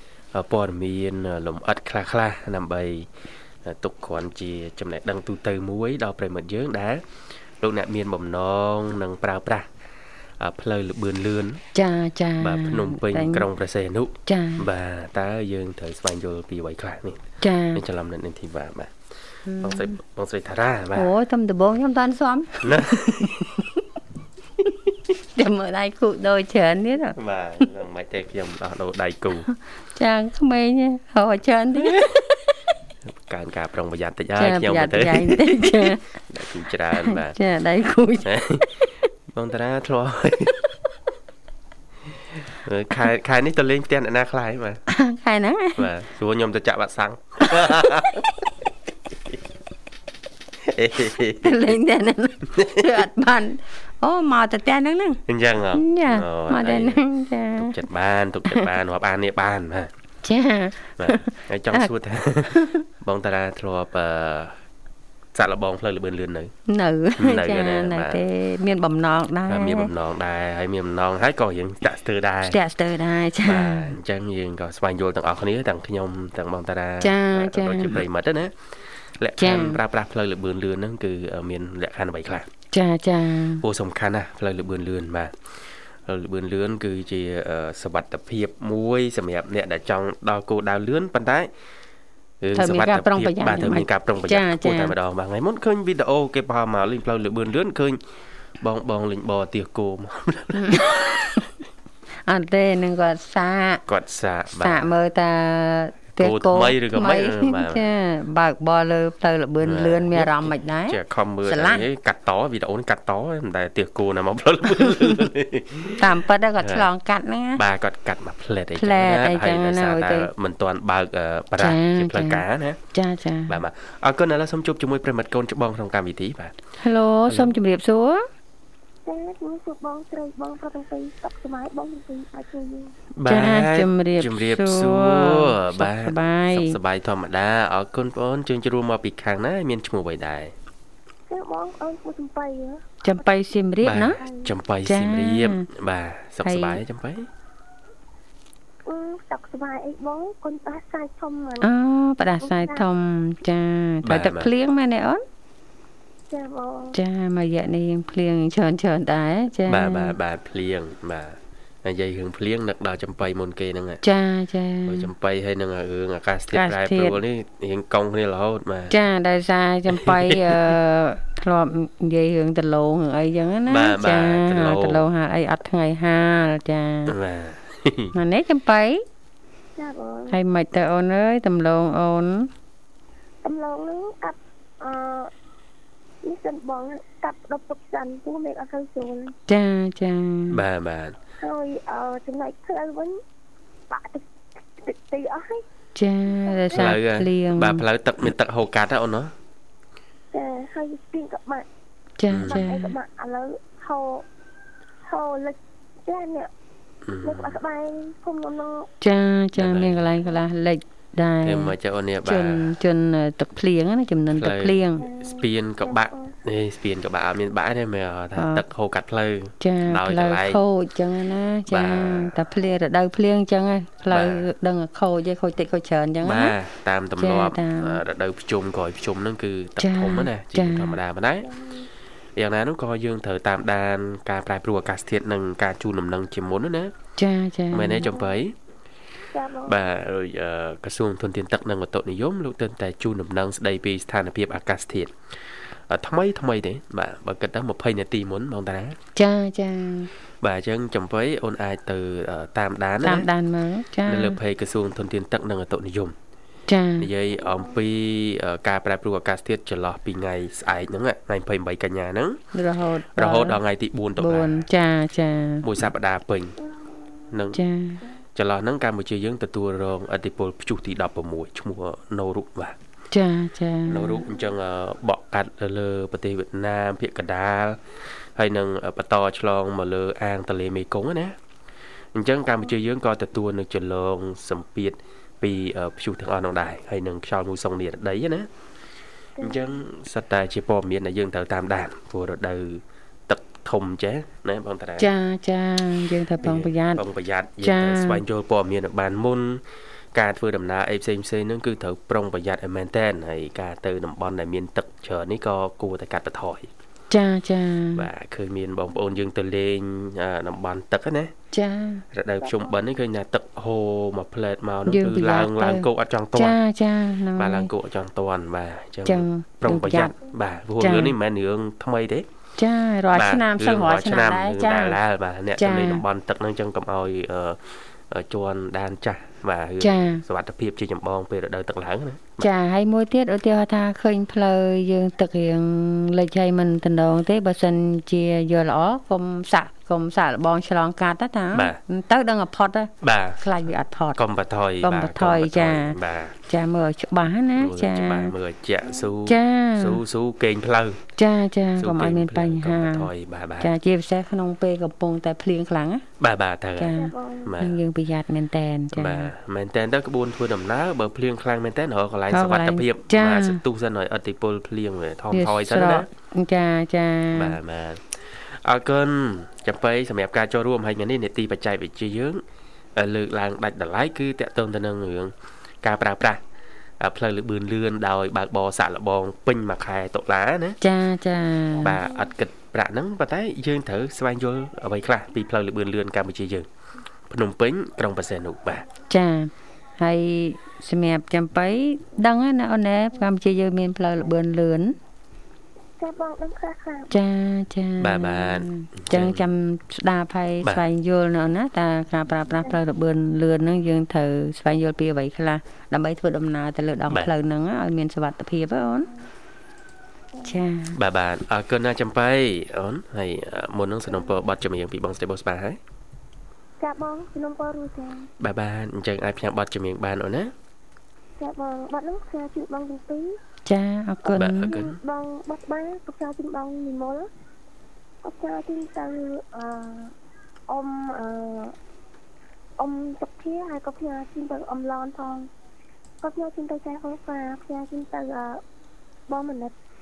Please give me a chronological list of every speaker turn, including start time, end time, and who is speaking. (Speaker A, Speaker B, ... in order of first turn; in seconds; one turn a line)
Speaker A: 0.3-3.1
Speaker A: 3.6-7.0
Speaker A: 7.6-9.7
Speaker A: 10.4-11.6
Speaker B: 11.7-13.4
Speaker A: 12.4-18.9
Speaker B: 14.3-14.7
Speaker B: 17.4-17.8
Speaker B: 19.5-20.0
Speaker A: 19.6-21.1
Speaker B: 20.9-23.6
Speaker A: 22.6-23.5
Speaker B: 25.4-27.7
Speaker A: 27.1-29.5
Speaker B: 30.0-32.1
Speaker A: 33.3-37.4
Speaker B: 34.4-36.0
Speaker B: 37.0-38.9
Speaker A: 38.2-38.7
Speaker A: 39.3-40.5
Speaker A: 42.5-44.8
Speaker B: 44.9-45.9
Speaker A: 45.8-48.3
Speaker B: 47.5-48.2
Speaker A: 50.6-51.8
Speaker B: 51.4-55.2
Speaker A: 52.5-53.0
Speaker A: 55.3-57.0
Speaker B: 55.8-57.8
Speaker A: 57.6-59.9
Speaker B: 60.2-61.9
Speaker A: 61.0-64.6
Speaker B: 62.5-62.9
Speaker A: 65.3-66.5
Speaker B: 66.7-69.9
Speaker A: 67.2-68.2
Speaker A: 69.5-72.6
Speaker B: 72.4-73.9
Speaker A: 73.4-78.5
Speaker B: 77.0-78.0
Speaker A: 79.2-82.5
Speaker B: 79.4-79.8
Speaker B: 82.7-83.7
Speaker A: 83.6-85.4
Speaker A: 86.0-91.5
Speaker A: 92.4-98.0
Speaker B: 92.6-94.9
Speaker A: 98.6-101.2
Speaker B: 100.5-101.4
Speaker B: 102.3-103.8
Speaker A: 103.9-104.9
Speaker B: 104.5-111.8
Speaker A: 106.2-107.9
Speaker A: 109.6-116.9
Speaker B: 114.8-115.3
Speaker B: 116.0-117.6
Speaker A: 117.6-122.8
Speaker B: 118.8-120.3
Speaker B: 121.6-123.6
Speaker A: 123.5-126.5
Speaker B: 126.8-128.2
Speaker A: 127.3-127.6
Speaker C: 129.1-132.9
Speaker A: 133.2-140.5
Speaker B: 133.3-136.8
Speaker C: 141.3-142.8
Speaker B: 143.0-144.2
Speaker A: 143.8-147.3
Speaker C: 144.0-144.5
Speaker B: 144.9-145.7
Speaker B: 146.4-146.8
Speaker C: 148.9-151.7
Speaker B: 151.6-155.2
Speaker C: 152.4-152.8
Speaker A: 154.0-154.5
Speaker C: 156.3-157.0
Speaker B: 156.9-160.2
Speaker A: 159.7-164.0
Speaker B: 164.0-165.1
Speaker A: 164.9-168.9
Speaker B: 166.5-167.2
Speaker B: 168.9-177.1
Speaker A: 169.9-170.8
Speaker A: 173.7-175.0
Speaker A: 177.1-178.1
Speaker B: 178.1-179.0
Speaker C: 179.8-180.4
Speaker B: 180.3-182.5
Speaker C: 183.4-185.3
Speaker C: 186.2-189.4
Speaker B: 189.5-190.6
Speaker A: 190.5-191.2
Speaker C: 191.4-193.2
Speaker C: 193.9-194.2
Speaker C: 194.8-195.6
Speaker B: 196.0-197.8
Speaker C: 196.4-196.9
Speaker A: 196.8-199.3
Speaker C: 200.3-201.7
Speaker B: 202.2-202.9
Speaker A: 202.3-202.7
Speaker C: 202.4-204.2
Speaker C: 205.1-206.5
Speaker A: 207.1-207.6
Speaker C: 207.2-208.9
Speaker B: 209.0-215.0
Speaker A: 209.6-210.0
Speaker A: 211.4-212.7
Speaker A: 214.3-220.6
Speaker C: 214.9-216.3
Speaker B: 218.4-218.6
Speaker B: 219.6-226.6
Speaker A: 221.7-222.3
Speaker A: 224.1-224.5
Speaker A: 226.2-231.5
Speaker B: 227.2-228.0
Speaker B: 229.8-231.0
Speaker C: 231.4-231.9
Speaker A: 232.4-236.9
Speaker B: 237.2-238.1
Speaker A: 237.7-238.5
Speaker C: 238.1-238.4
Speaker C: 239.3-239.8
Speaker A: 239.7-245.1
Speaker A: 245.9-249.0
Speaker B: 249.2-250.1
Speaker A: 250.4-253.3
Speaker B: 253.0-254.4
Speaker A: 254.1-256.1
Speaker B: 256.7-257.1
Speaker A: 257.0-262.4
Speaker C: 257.3-257.8
Speaker B: 262.5-263.6
Speaker A: 263.2-264.7
Speaker B: 264.2-265.6
Speaker A: 265.6-266.6
Speaker C: 266.6-267.4
Speaker A: 267.3-267.6
Speaker B: 267.5-268.0
Speaker A: 268.4-272.8
Speaker B: 273.1-274.2
Speaker C: 273.9-274.5
Speaker A: 273.9-277.8
Speaker A: 278.4-281.4
Speaker A: 282.1-288.5
Speaker C: 289.4-289.8
Speaker A: 289.4-295.1
Speaker B: 295.0-297.0
Speaker A: 296.4-299.6
Speaker B: 297.6-298.2
Speaker A: 300.1-306.7
Speaker B: 307.1-308.1
Speaker A: 308.0-311.3
Speaker B: 311.5-312.0
Speaker A: 312.1-316.6
Speaker C: 312.4-312.8
Speaker B: 314.9-317.7
Speaker A: 317.4-322.3
Speaker B: 319.1-320.1
Speaker B: 320.8-321.1
Speaker B: 322.6-325.0
Speaker A: 323.1-332.5
Speaker B: 325.6-326.0
Speaker B: 329.8-330.2
Speaker B: 332.4-344.2
Speaker A: 341.5-341.8
Speaker A: 343.0-343.5
Speaker A: 344.2-346.4
Speaker B: 344.8-348.3
Speaker A: 347.6-351.0
Speaker C: 348.8-349.1
Speaker B: 349.3-350.0
Speaker B: 351.2-353.1
Speaker A: 351.8-353.7
Speaker B: 353.6-356.0
Speaker A: 356.2-357.8
Speaker B: 356.8-359.3
Speaker C: 356.9-357.6
Speaker A: 358.9-366.1
Speaker B: 362.3-363.6
Speaker B: 365.3-367.6
Speaker A: 367.4-372.4
Speaker A: 373.0-376.4
Speaker A: 377.0-380.8
Speaker B: 380.8-382.0
Speaker A: 381.8-386.7
Speaker A: 387.3-388.9
Speaker B: 389.1-394.9
Speaker C: 396.0-397.1
Speaker B: 397.1-409.1
Speaker A: 398.0-399.4
Speaker C: 402.5-402.8
Speaker C: 410.3-410.6
Speaker B: 410.5-410.9
Speaker A: 410.9-415.8
Speaker C: 416.8-418.3
Speaker A: 418.4-420.5
Speaker C: 421.4-423.4
Speaker B: 423.7-424.7
Speaker A: 424.3-425.0
Speaker C: 424.6-427.3
Speaker C: 428.2-430.1
Speaker C: 430.7-431.7
Speaker C: 432.8-435.5
Speaker C: 436.2-438.6
Speaker C: 439.3-439.7